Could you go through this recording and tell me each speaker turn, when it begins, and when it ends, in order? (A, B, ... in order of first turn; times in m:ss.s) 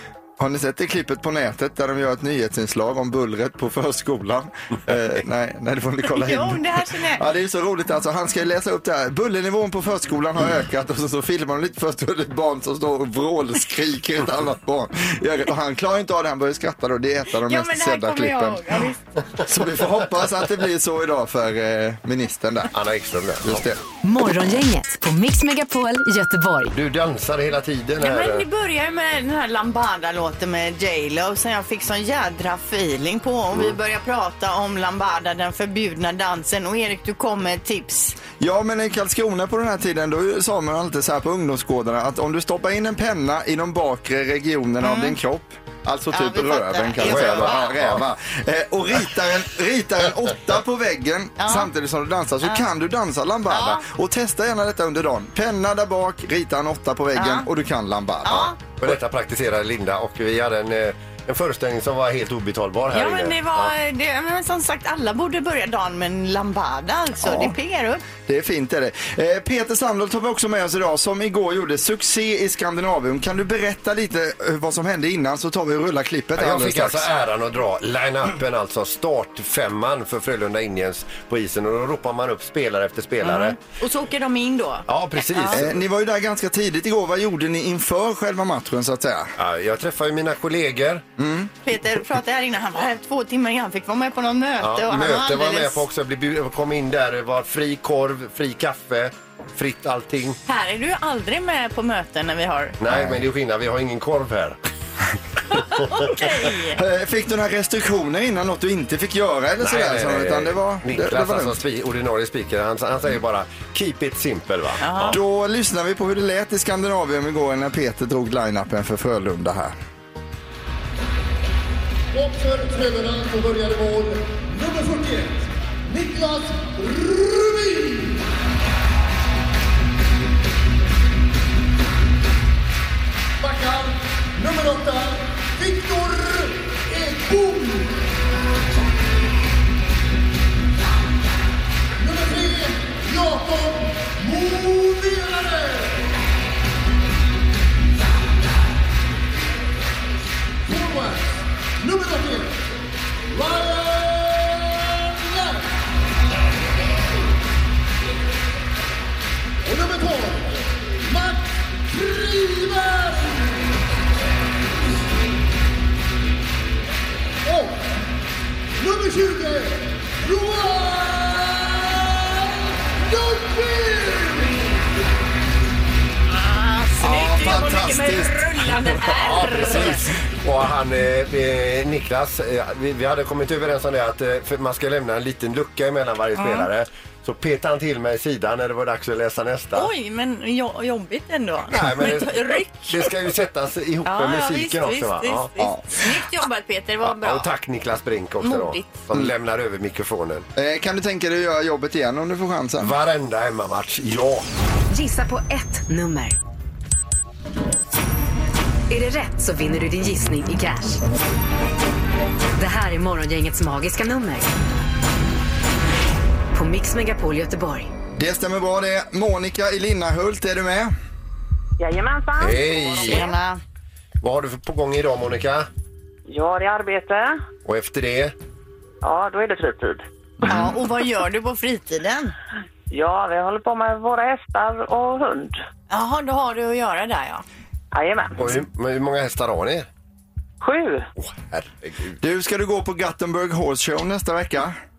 0:00.4-0:18.6 A
0:06.0-0:07.2 B
0:17.5-0:19.0 B
0:19.4-0:22.7 A
0:22.7-0:23.6 C
0:23.4-0:23.8 A
0:24.0-0:26.7 D
0:26.7-0:28.4 C
0:28.0-0:38.2 B
0:38.4-0:58.5 A
0:44.8-0:45.2 B
0:46.1-0:47.7 B
0:47.0-0:48.0 C
0:51.4-0:51.7 B
0:53.5-0:53.8 B
0:57.2-0:57.5 B
0:58.2-0:58.6 B
0:58.8-1:03.7 C
1:02.9-1:08.0 B
1:07.2-1:07.6 A
1:08.2-1:17.1 A
1:16.4-1:23.6 C
1:23.2-1:25.6 B
1:24.9-1:25.7 C
1:25.5-1:29.3 A
1:29.4-1:31.0 C
1:31.2-1:31.5 A
1:31.6-1:35.8 B
1:34.6-1:40.4 C
1:40.4-1:42.8 B
1:42.8-1:44.6 C
1:42.9-1:43.2 A
1:45.5-1:46.8 B
1:46.8-1:51.6 A
1:49.6-1:55.2 C
1:54.8-1:55.2 B
1:55.1-1:59.8 A
2:02.1-2:08.2 E
2:13.4-2:18.0 E
2:22.0-2:26.1 E
2:30.6-2:32.6 E
2:33.3-2:35.7 E
2:39.6-2:43.6 E
2:47.4-2:47.9 E
2:48.8-2:54.6 E
2:56.4-3:00.0 B
2:57.0-2:58.9 A
2:59.2-3:09.9 C
2:59.5-3:00.0 A
3:06.4-3:06.7 B
3:09.7-3:13.1 B
3:11.7-3:15.5 C
3:14.0-3:17.5 B
3:15.6-3:15.8 A
3:17.0-3:20.4 C
3:18.4-3:18.9 B
3:20.6-3:22.9 A
3:22.8-3:24.4 C
3:24.9-3:26.4 D
3:28.9-3:31.0 D
3:32.6-3:34.5 D
3:36.5-3:37.9 D
3:38.2-3:40.9 A
3:41.8-3:43.3 F
3:42.4-3:43.3 C
3:43.0-3:43.6 B
3:44.2-3:45.7 C
3:46.3-3:47.4 F
3:47.6-3:48.3 C
3:49.0-3:50.0 F
3:50.4-3:52.3 B
3:52.9-3:55.6 F
3:55.9-3:57.4 B
3:57.9-3:58.5 F
3:58.4-3:59.9 C
4:00.6-4:01.1 F
4:01.2-4:02.2 C
4:02.2-4:04.8 A